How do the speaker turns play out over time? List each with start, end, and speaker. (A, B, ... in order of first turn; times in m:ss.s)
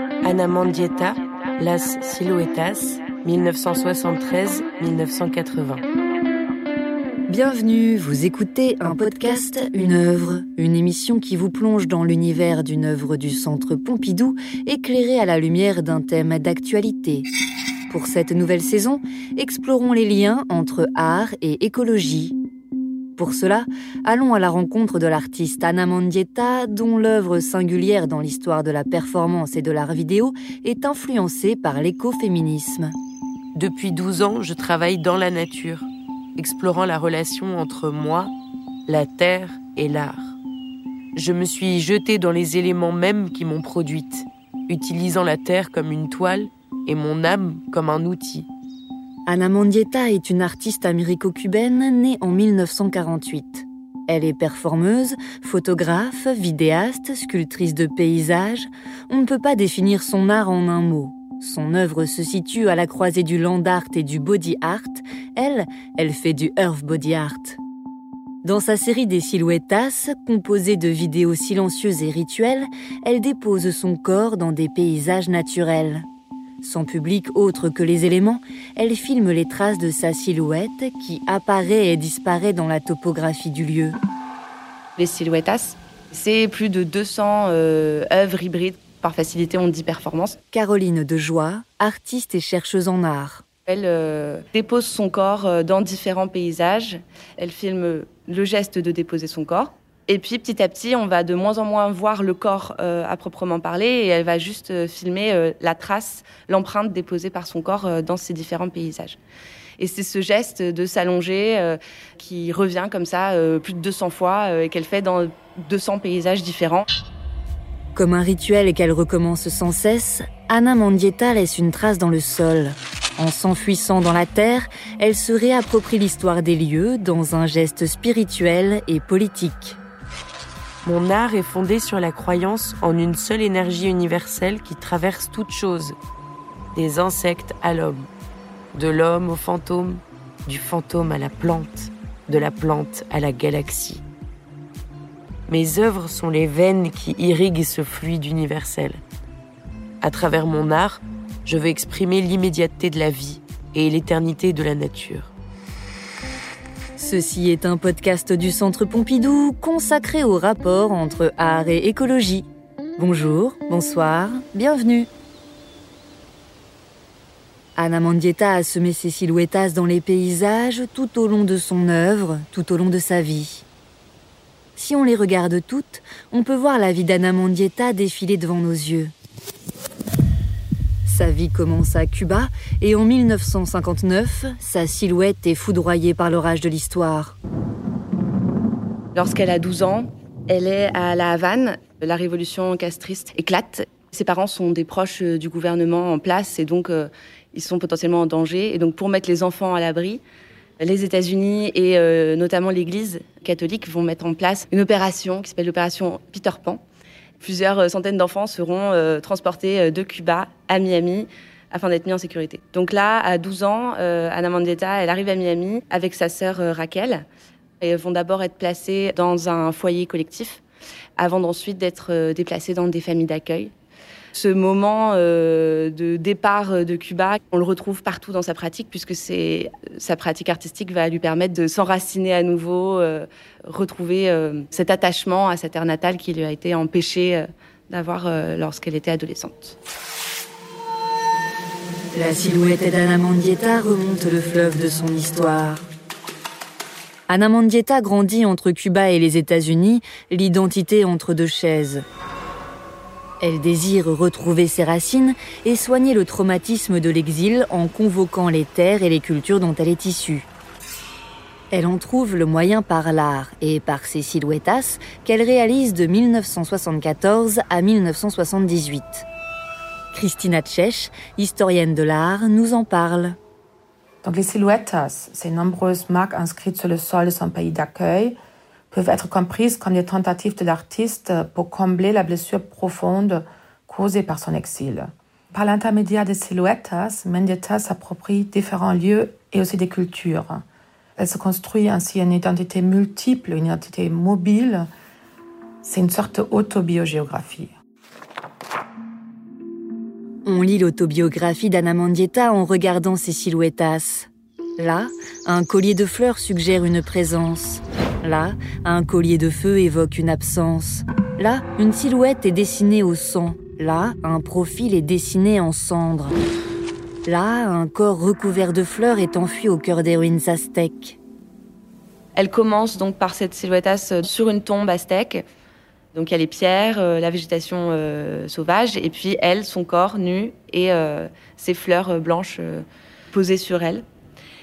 0:00.2-0:05.8 A
0:07.3-0:17.3 B
0:17.9-0:22.4 B
0:23.2-0:33.0 B
0:33.6-0:38.3 A
0:38.9-0:40.4 A
0:41.2-0:48.5 A
0:49.3-1:07.6 B
1:08.4-1:16.1 B
1:16.6-1:24.0 B
1:25.0-1:30.4 C
1:30.5-1:33.4 B
1:33.7-1:49.2 C
1:49.8-1:56.9 C
1:58.0-2:09.8 B
2:10.8-2:16.0 A
2:16.7-2:18.1 A
2:18.7-2:24.0 A
2:25.5-2:29.0 A
2:30.0-2:35.3 A
2:37.0-2:42.5 B
2:43.0-2:45.1 B
2:47.8-2:53.6 B
2:54.8-2:59.1 B
3:01.0-3:07.4 B
3:09.2-3:20.2 C
3:20.8-3:26.8 C
3:27.4-3:37.2 C
3:37.8-3:40.6 C
3:41.2-3:43.7 C
3:44.3-3:59.8 C
4:02.1-4:05.8 B
4:07.3-4:12.0 B
4:13.4-4:20.5 B
4:21.7-4:29.2 B
4:30.1-4:33.4 B
4:34.2-4:38.4 D
4:38.9-4:50.6 D
4:51.2-4:54.9 D
4:55.8-4:57.7 D
5:00.4-5:16.4 B
5:17.3-5:21.2 B
5:22.4-5:25.4 C
5:26.1-5:34.0 C